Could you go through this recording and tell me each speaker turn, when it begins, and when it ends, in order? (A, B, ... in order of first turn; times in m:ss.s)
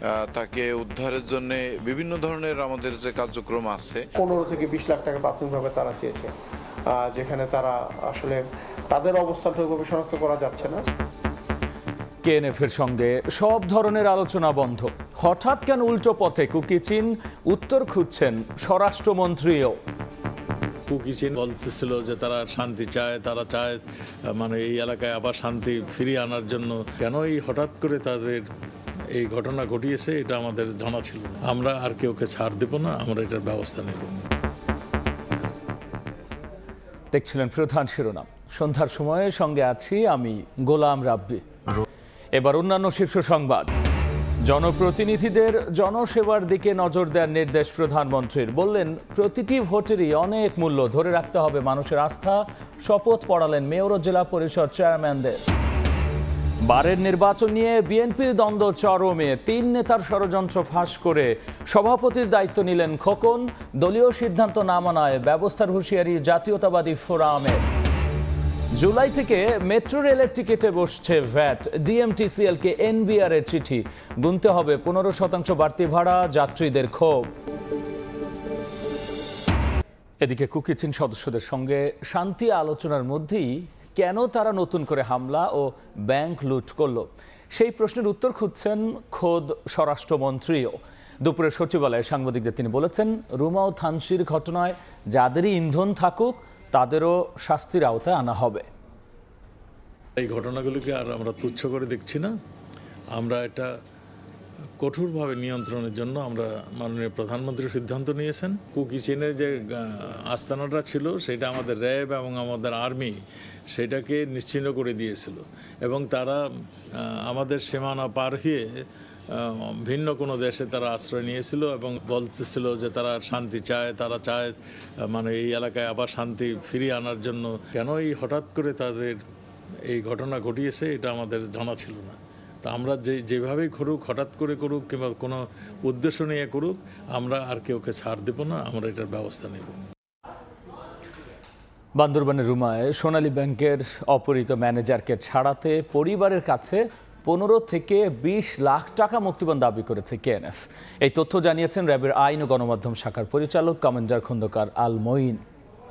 0:00.3-0:04.1 A
0:04.2-0:06.3 B
0:06.9-0:10.8 B
0:12.2-0:19.8 C
0:20.9-0:23.8 D
0:24.3-0:28.4 D
0:29.2-0:34.2 D
0:37.1-0:41.8 C
0:42.3-0:43.7 C
0:44.4-0:55.4 C
0:56.6-1:07.6 C
1:08.7-1:17.3 C
1:20.2-1:38.6 C
1:40.2-1:42.3 D
1:43.2-1:43.7 D
1:44.8-1:53.1 D
1:53.7-1:56.4 D
1:57.3-1:58.6 D
1:59.4-2:04.5 D
2:05.1-2:09.2 D
2:09.9-2:19.8 D
2:22.0-2:35.4 C